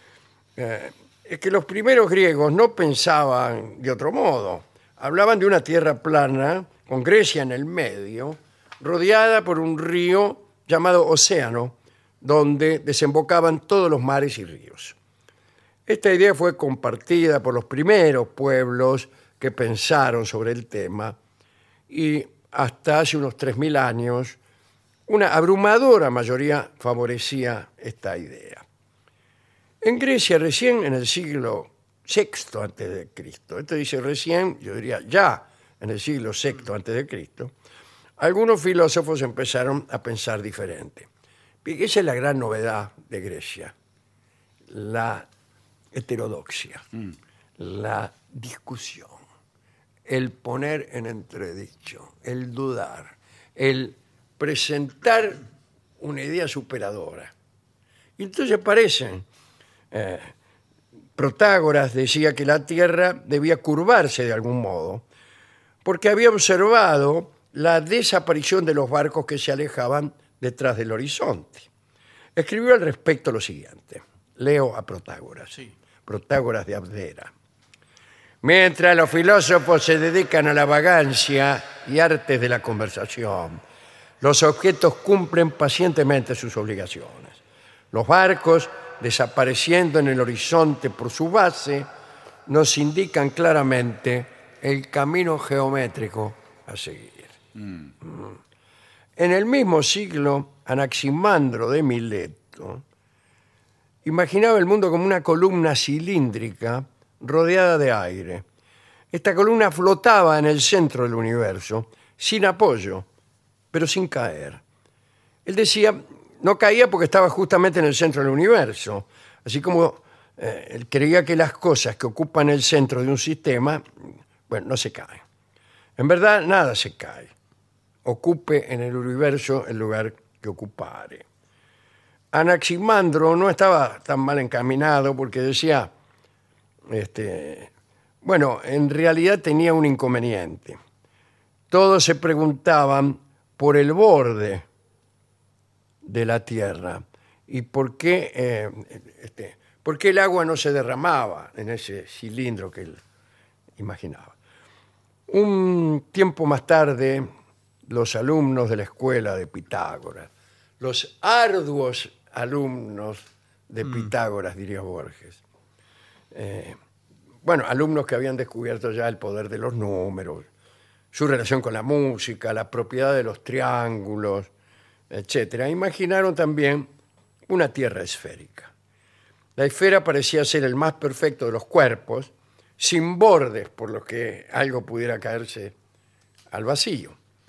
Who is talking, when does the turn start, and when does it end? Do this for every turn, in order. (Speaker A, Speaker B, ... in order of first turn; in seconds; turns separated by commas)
Speaker A: 0.6-14.9, Speaker A: 15.9-21.2, Speaker A: 21.9-24.4, Speaker A: 25.1-28.6, Speaker A: 29.8-37.5, Speaker A: 38.2-41.1, Speaker A: 41.6-43.7, Speaker A: 44.7-45.3, Speaker A: 45.9-46.9, Speaker A: 47.6-49.2, Speaker A: 50.1-55.4, Speaker A: 56.0-57.3, Speaker A: 58.2-59.2, Speaker A: 59.9-60.3, Speaker A: 61.2-65.0, Speaker A: 65.8-71.7, Speaker A: 72.3-77.3, Speaker A: 78.4-83.6, Speaker A: 84.2-87.4, Speaker A: 87.9-91.9, Speaker A: 92.5-97.3, Speaker A: 98.0-98.4, Speaker A: 99.2-102.8, Speaker A: 104.0-108.4, Speaker A: 109.1-113.1, Speaker A: 113.7-114.6, Speaker A: 115.5-123.8, Speaker A: 124.5-125.2, Speaker A: 126.0-127.3, Speaker A: 128.1-131.2, Speaker A: 132.3-135.9, Speaker A: 136.9-137.7, Speaker A: 138.2-140.8, Speaker A: 141.7-144.7, Speaker A: 146.0-153.0, Speaker A: 153.8-154.4, Speaker A: 155.3-157.3, Speaker A: 157.8-160.3, Speaker A: 160.8-165.4, Speaker A: 166.3-166.8, Speaker A: 167.4-170.5, Speaker A: 171.1-174.5, Speaker A: 175.1-176.9, Speaker A: 177.5-178.7, Speaker A: 179.6-185.7, Speaker A: 186.5-187.2